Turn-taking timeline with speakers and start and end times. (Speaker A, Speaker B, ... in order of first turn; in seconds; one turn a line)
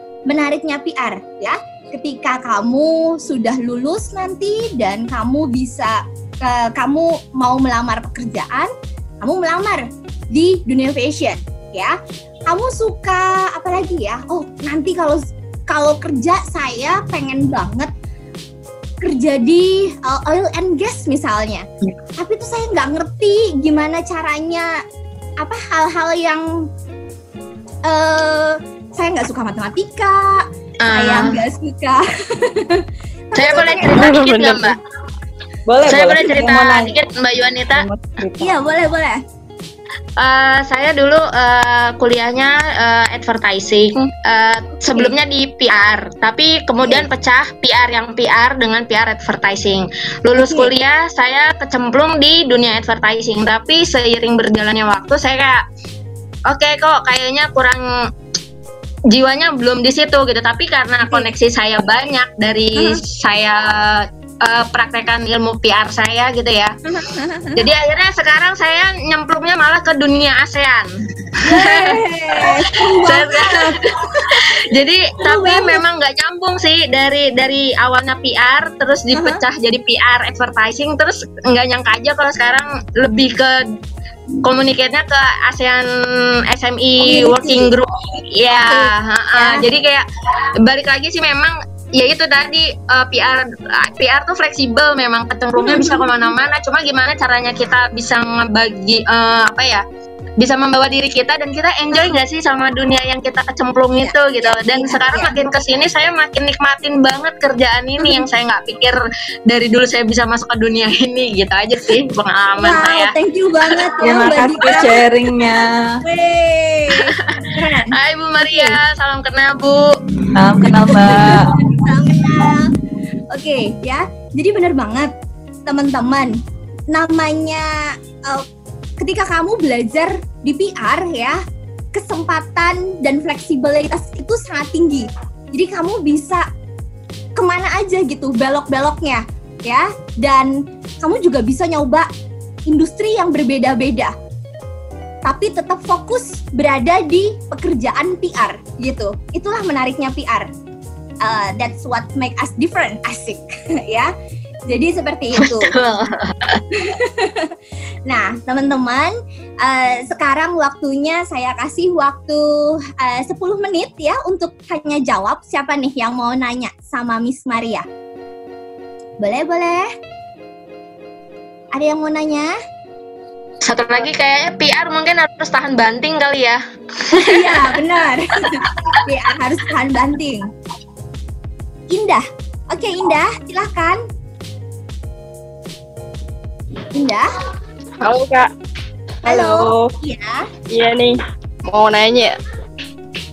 Speaker A: 0.3-12.0
Speaker A: 12.5-17.9
Speaker A: 19.0-21.7
Speaker A: 22.2-24.8
Speaker A: 25.4-26.5
Speaker A: 27.8-34.1
Speaker B: 30.8-31.4
Speaker B: 33.3-34.8
Speaker C: 34.0-34.7
Speaker D: 35.7-37.0
Speaker B: 35.9-37.8
Speaker D: 37.7-38.6
Speaker A: 38.4-39.2
Speaker B: 40.2-55.6
Speaker A: 46.8-47.1
Speaker A: 50.4-50.7
Speaker B: 56.5-57.8
Speaker B: 59.1-66.7
Speaker A: 66.9-67.6
Speaker B: 67.5-70.9
Speaker A: 71.4-74.5
Speaker B: 71.5-83.8
Speaker A: 75.2-75.8
Speaker A: 79.1-79.4
Speaker B: 84.4-99.8
Speaker A: 87.0-87.7
Speaker A: 88.5-89.6
Speaker A: 95.6-96.1
Speaker B: 100.4-113.1
Speaker A: 101.9-102.2
Speaker A: 104.0-105.4
Speaker A: 108.0-108.3
Speaker A: 112.6-115.0
Speaker D: 114.0-116.0
Speaker A: 116.0-118.8
Speaker B: 117.9-119.9
Speaker D: 120.3-121.5
Speaker A: 120.9-122.7
Speaker A: 123.3-125.1
Speaker A: 125.7-126.3
Speaker A: 126.9-127.7
Speaker A: 129.0-131.4
Speaker A: 131.9-136.4
Speaker A: 137.4-142.1
Speaker A: 142.7-144.1
Speaker A: 145.2-150.5
Speaker A: 151.2-154.1
Speaker A: 154.7-155.7
Speaker B: 155.4-156.6
Speaker A: 156.7-157.6
Speaker A: 158.1-167.8
Speaker A: 169.2-169.9
Speaker A: 171.7-172.5
Speaker B: 173.6-177.7
Speaker A: 177.1-180.4
Speaker A: 181.9-184.0
Speaker A: 186.9-187.3
Speaker C: 188.0-188.5
Speaker C: 189.2-189.9
Speaker A: 189.2-190.5
Speaker C: 190.7-192.3